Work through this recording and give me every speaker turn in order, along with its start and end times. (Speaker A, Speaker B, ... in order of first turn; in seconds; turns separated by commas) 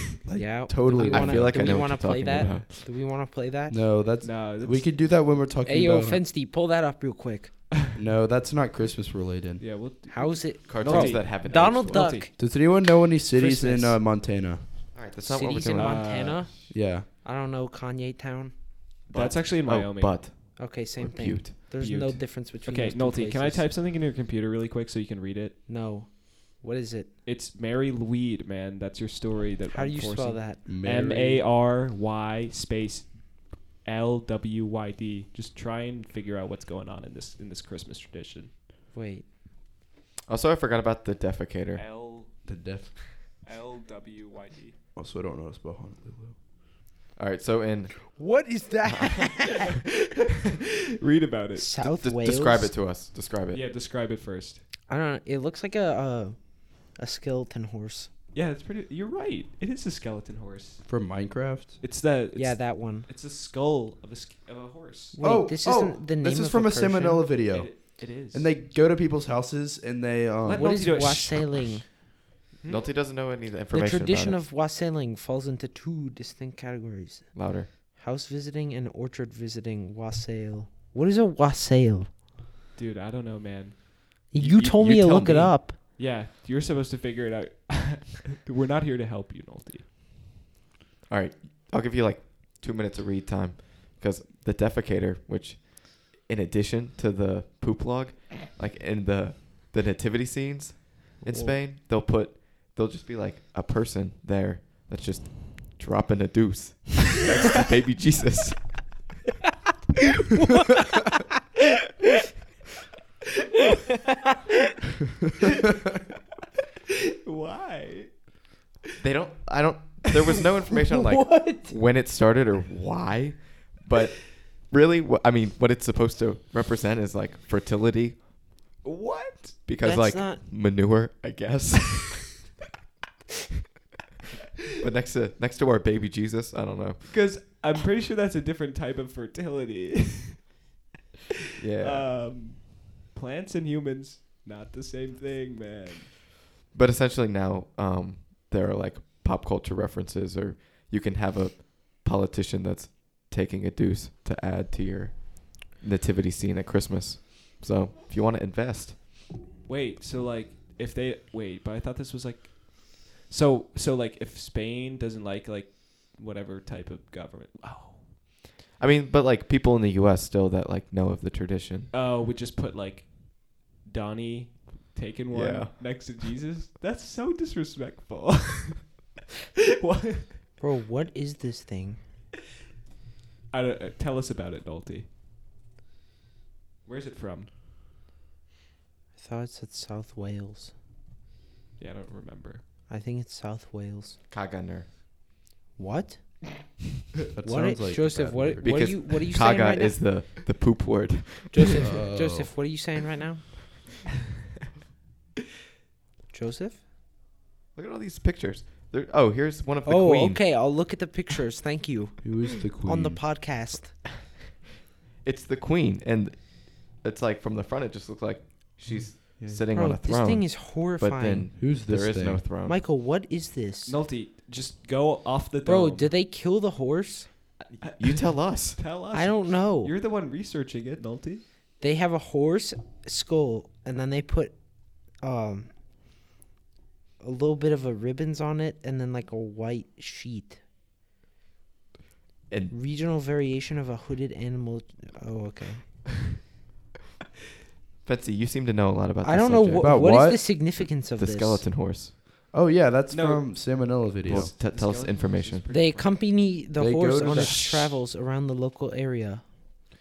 Speaker A: 0.2-2.5, Speaker B: 0.4-3.8, Speaker C: 0.9-2.6, Speaker A: 3.7-6.2, Speaker D: 4.2-4.9, Speaker B: 5.6-7.5, Speaker A: 7.9-9.8, Speaker D: 9.6-12.3, Speaker B: 10.1-12.4, Speaker C: 10.7-12.2, Speaker A: 12.3-14.7, Speaker B: 13.3-14.0, Speaker C: 14.9-16.3, Speaker B: 15.2-18.6, Speaker D: 15.8-16.5, Speaker A: 16.7-17.1, Speaker C: 19.1-21.5, Speaker D: 19.1-20.2, Speaker B: 20.6-23.7, Speaker D: 21.7-25.6, Speaker B: 25.7-27.1, Speaker D: 27.2-38.5, Speaker B: 29.7-30.6, Speaker A: 30.6-31.4, Speaker B: 38.9-39.2, Speaker C: 40.3-41.9, Speaker D: 41.8-44.8, Speaker A: 42.4-43.0, Speaker A: 44.9-46.4, Speaker C: 47.1-48.2, Speaker B: 48.1-49.7, Speaker D: 51.0-51.7, Speaker B: 51.5-52.7, Speaker C: 51.9-53.6, Speaker D: 53.5-54.6, Speaker B: 54.9-58.1, Speaker D: 58.3-60.9, Speaker A: 60.9-61.8, Speaker D: 61.8-65.2, Speaker B: 62.4-63.1, Speaker B: 65.2-67.2, Speaker A: 65.2-70.7, Speaker D: 67.5-68.5, Speaker D: 70.4-71.8, Speaker B: 70.5-71.9, Speaker D: 72.6-72.9, Speaker C: 72.7-74.4, Speaker B: 73.7-82.1, Speaker C: 77.3-77.7, Speaker D: 82.8-84.2, Speaker B: 84.3-85.8, Speaker C: 84.4-85.6, Speaker D: 86.0-89.9, Speaker C: 91.1-109.0, Speaker B: 101.2-101.5, Speaker D: 117.2-118.2, Speaker C: 119.0-128.3, Speaker B: 120.9-121.8, Speaker D: 128.8-129.6, Speaker C: 129.7-132.4, Speaker B: 129.8-130.4, Speaker C: 134.8-137.1, Speaker D: 137.1-140.5, Speaker C: 141.6-142.2, Speaker D: 141.8-146.1, Speaker C: 146.7-159.0, Speaker D: 159.6-168.1, Speaker C: 168.8-171.9, Speaker D: 171.9-179.1, Speaker C: 175.3-175.8, Speaker D: 179.8-180.4, Speaker B: 180.6-182.0, Speaker D: 183.5-185.1, Speaker D: 186.8-187.5, Speaker B: 189.2-190.7, Speaker D: 191.8-192.6, Speaker B: 192.9-194.2, Speaker C: 194.3-194.9, Speaker B: 195.8-196.6, Speaker A: 197.3-198.9, Speaker B: 197.4-200.0, Speaker C: 198.6-201.8, Speaker B: 201.5-203.5, Speaker A: 201.8-202.5, Speaker B: 206.3-206.8, Speaker C: 207.8-210.4, Speaker B: 209.8-214.0, Speaker A: 212.2-213.2, Speaker C: 215.2-222.8, Speaker A: 218.9-219.7, Speaker B: 219.7-221.5, Speaker A: 221.6-222.4, Speaker B: 222.6-224.0, Speaker D: 223.8-226.1, Speaker B: 225.7-227.3, Speaker C: 227.7-228.8, Speaker D: 227.8-231.4, Speaker B: 229.1-229.9, Speaker B: 231.8-235.7, Speaker B: 237.2-240.6, Speaker B: 242.7-245.8, Speaker C: 248.0-252.1, Speaker B: 249.2-251.7, Speaker A: 249.8-250.4, Speaker A: 252.5-254.5, Speaker D: 253.1-256.2, Speaker C: 254.2-255.7, Speaker B: 255.7-259.4, Speaker A: 256.8-257.9, Speaker D: 257.2-257.6